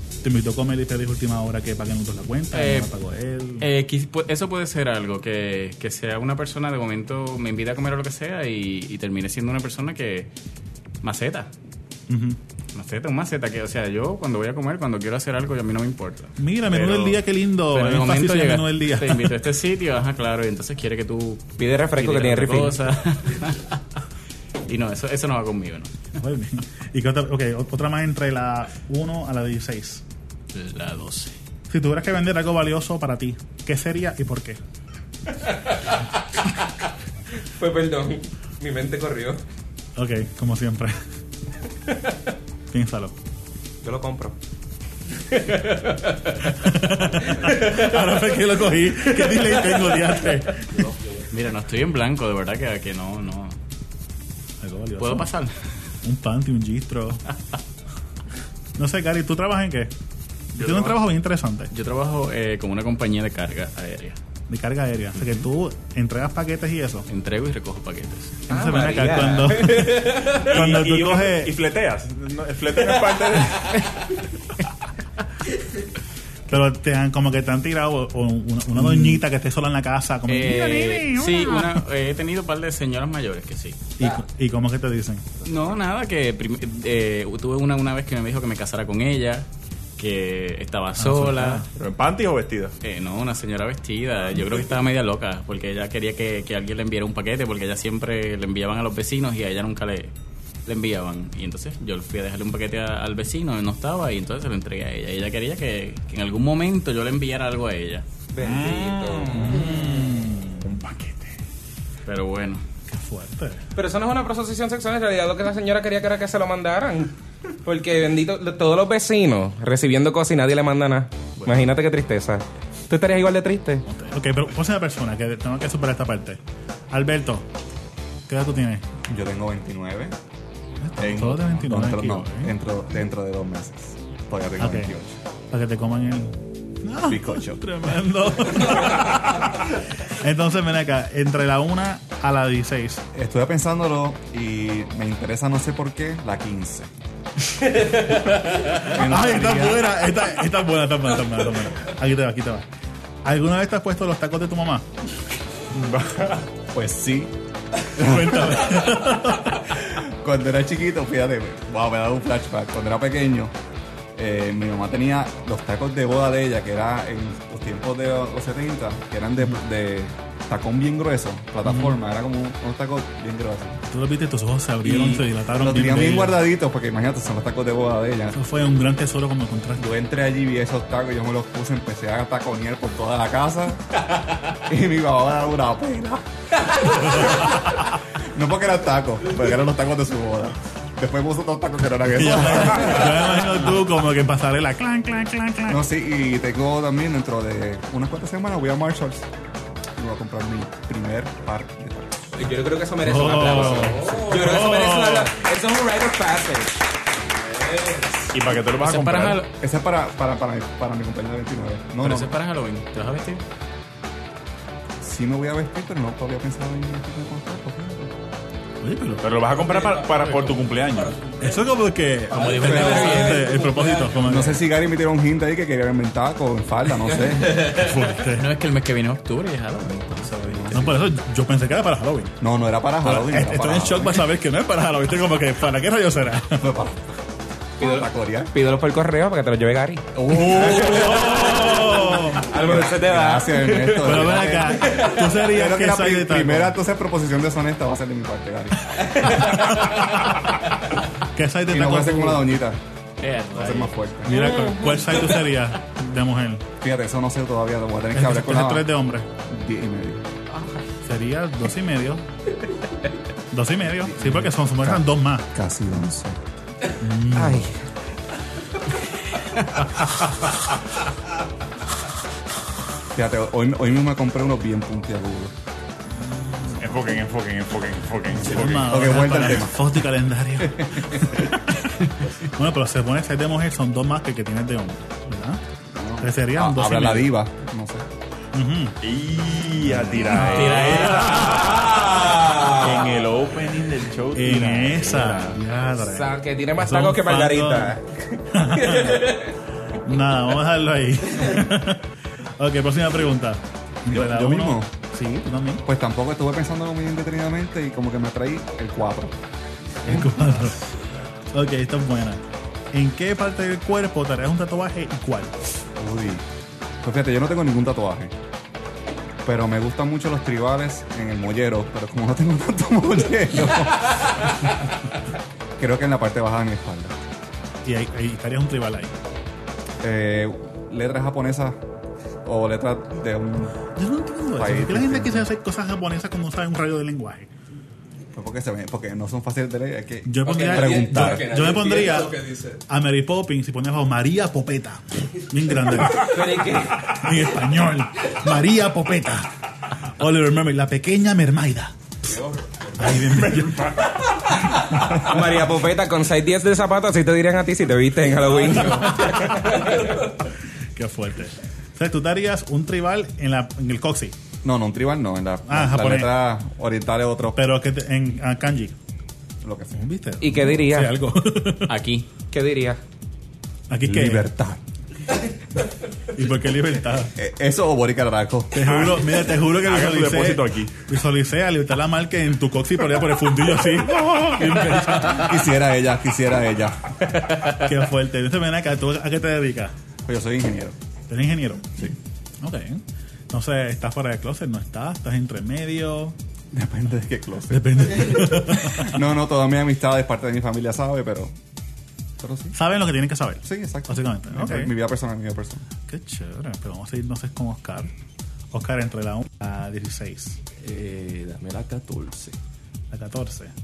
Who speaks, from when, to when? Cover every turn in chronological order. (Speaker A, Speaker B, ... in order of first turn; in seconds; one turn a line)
Speaker A: 0.2-3.7
Speaker B: 2.5-2.9
Speaker B: 3.6-10.3
Speaker B: 11.0-11.5
Speaker A: 12.1-12.4
Speaker B: 12.7-23.8
Speaker A: 16.4-19.4
Speaker C: 21.6-22.8
Speaker B: 24.7-25.9
Speaker A: 26.2-30.0
Speaker B: 30.5-31.3
Speaker A: 31.7-34.6
Speaker C: 37.6-39.4
Speaker A: 40.0-41.0
Speaker A: 42.7-43.1
Speaker C: 43.8-44.3
Speaker C: 45.3-46.3
Speaker A: 46.6-50.7
Speaker C: 49.2-49.5
Speaker B: 51.3-53.6
Speaker A: 54.6-55.3
Speaker B: 55.0-55.6
Speaker A: 56.0-57.2
Speaker A: 58.8-59.9
Speaker A: 60.5-61.7
Speaker D: 60.6-60.9
Speaker B: 61.7-64.2
Speaker A: 64.5-67.1
Speaker B: 67.1-68.4
Speaker A: 68.5-71.6
Speaker C: 68.5-70.5
Speaker D: 70.5-73.8
Speaker A: 76.5-81.8
Speaker B: 80.3-83.8
Speaker A: 84.0-85.2
Speaker B: 85.4-89.5
Speaker B: 90.0-91.6
Speaker A: 91.0-91.7
Speaker D: 91.7-92.7
Speaker B: 92.8-100.1
Speaker B: 100.7-108.0
Speaker C: 108.3-109.6
Speaker D: 108.4-109.7
Speaker A: 109.3-110.7
Speaker D: 110.6-111.3
Speaker B: 112.0-112.6
Speaker A: 112.9-113.6
Speaker C: 113.8-117.1
Speaker C: 117.6-123.8
Speaker B: 121.4-121.7
Speaker A: 123.9-126.4
Speaker A: 126.9-127.5
Speaker A: 128.3-128.9
Speaker E: 129.1-130.1
Speaker A: 130.8-132.5
Speaker E: 131.0-135.2
Speaker A: 134.6-134.9
Speaker A: 135.5-139.6
Speaker E: 137.1-137.6
Speaker A: 140.2-143.0
Speaker E: 143.1-146.9
Speaker A: 148.7-152.6
Speaker E: 148.8-149.9
Speaker A: 153.2-154.9
Speaker D: 155.7-156.4
Speaker E: 156.7-157.3
Speaker A: 158.0-159.6
Speaker E: 158.0-158.5
Speaker E: 159.8-163.5
Speaker E: 164.1-173.8
Speaker A: 171.6-172.0
Speaker A: 173.9-176.4
Speaker E: 174.8-178.4
Speaker A: 178.3-179.9
Speaker E: 179.8-183.8
Speaker E: 184.5-186.2
Speaker A: 187.2-187.5
Speaker E: 188.3-193.6
Speaker A: 192.1-195.8
Speaker E: 195.7-199.3
Speaker E: 199.9-202.3
Speaker C: 202.3-206.8
Speaker A: 203.0-205.4
Speaker C: 207.6-208.2
Speaker D: 208.3-209.4
Speaker B: 208.7-209.5
Speaker E: 209.6-212.3
Speaker B: 212.0-213.4
Speaker E: 215.0-218.1
Speaker A: 218.8-219.3
Speaker D: 219.2-221.2
Speaker A: 221.4-224.7
Speaker B: 222.3-223.5
Speaker E: 222.6-223.2
Speaker E: 224.2-227.8
Speaker A: 227.6-228.4
Speaker B: 228.2-230.9
Speaker E: 230.2-231.0
Speaker A: 230.7-232.3
Speaker E: 232.4-234.3
Speaker A: 233.0-236.7
Speaker E: 236.6-237.2
Speaker E: 237.8-238.5
Speaker C: 237.8-244.2
Speaker E: 240.1-249.0
Speaker A: 240.3-242.5
Speaker A: 243.9-246.8
Speaker A: 249.4-250.3
Speaker A: 251.3-252.7
Speaker E: 251.7-252.8
Speaker B: 253.2-253.9
Speaker E: 253.5-254.5
Speaker A: 254.2-256.6
Speaker C: 254.5-255.0
Speaker E: 256.8-258.9
Speaker A: 258.1-259.3
Speaker E: 259.5-260.2
Speaker A: 261.0-262.2
Speaker A: 263.5-265.5
Speaker E: 264.1-266.4
Speaker A: 267.0-267.7
Speaker C: 267.3-267.7
Speaker E: 273.1-275.5
Speaker A: 276.2-276.8
Speaker D: 276.8-279.1
Speaker A: 278.3-285.6
Speaker E: 278.7-279.8
Speaker E: 286.0-288.1
Speaker A: 286.2-287.3
Speaker A: 288.5-289.0
Speaker D: 289.0-295.6
Speaker A: 289.8-291.6
Speaker B: 290.4-291.6
Speaker A: 294.3-297.9
Speaker C: 295.9-299.5
Speaker A: 298.5-299.4
Speaker A: 300.0-302.0
Speaker A: 302.6-305.8
Speaker E: 304.1-304.9
Speaker E: 305.8-309.4
Speaker A: 310.0-310.9
Speaker A: 311.5-315.6
Speaker E: 316.0-316.4
Speaker E: 317.0-318.3
Speaker E: 319.4-324.5
Speaker E: 325.8-327.1
Speaker A: 327.8-329.1
Speaker E: 330.0-331.8
Speaker E: 332.4-333.8
Speaker A: 333.9-337.5
Speaker E: 334.5-335.5
Speaker E: 338.3-341.5
Speaker A: 340.2-349.5
Speaker F: 340.8-342.8
Speaker C: 346.2-347.1
Speaker A: 350.2-351.9
Speaker A: 353.0-354.0
Speaker D: 353.3-354.1
Speaker C: 355.2-359.6
Speaker A: 358.8-359.8
Speaker A: 360.9-364.4
Speaker E: 364.6-367.6
Speaker A: 365.7-366.3
Speaker A: 367.6-368.9
Speaker E: 369.6-370.0
Speaker A: 369.9-371.9
Speaker C: 370.4-371.2
Speaker B: 371.9-372.3
Speaker C: 372.5-373.0
Speaker A: 373.9-374.5
Speaker E: 374.0-374.8
Speaker A: 376.3-377.3
Speaker E: 377.4-379.0
Speaker A: 378.7-385.8
Speaker D: 378.8-379.1
Speaker D: 379.6-381.0
Speaker E: 385.2-387.1
Speaker A: 387.6-389.9
Speaker E: 390.2-390.9
Speaker A: 391.3-392.1
Speaker A: 392.6-396.4
Speaker E: 396.7-401.5
Speaker A: 397.7-399.2
Speaker E: 402.4-402.8
Speaker A: 402.7-404.9
Speaker E: 403.6-405.9
Speaker A: 406.1-408.1
Speaker A: 408.7-410.6
Speaker F: 410.8-412.5
Speaker A: 413.1-413.7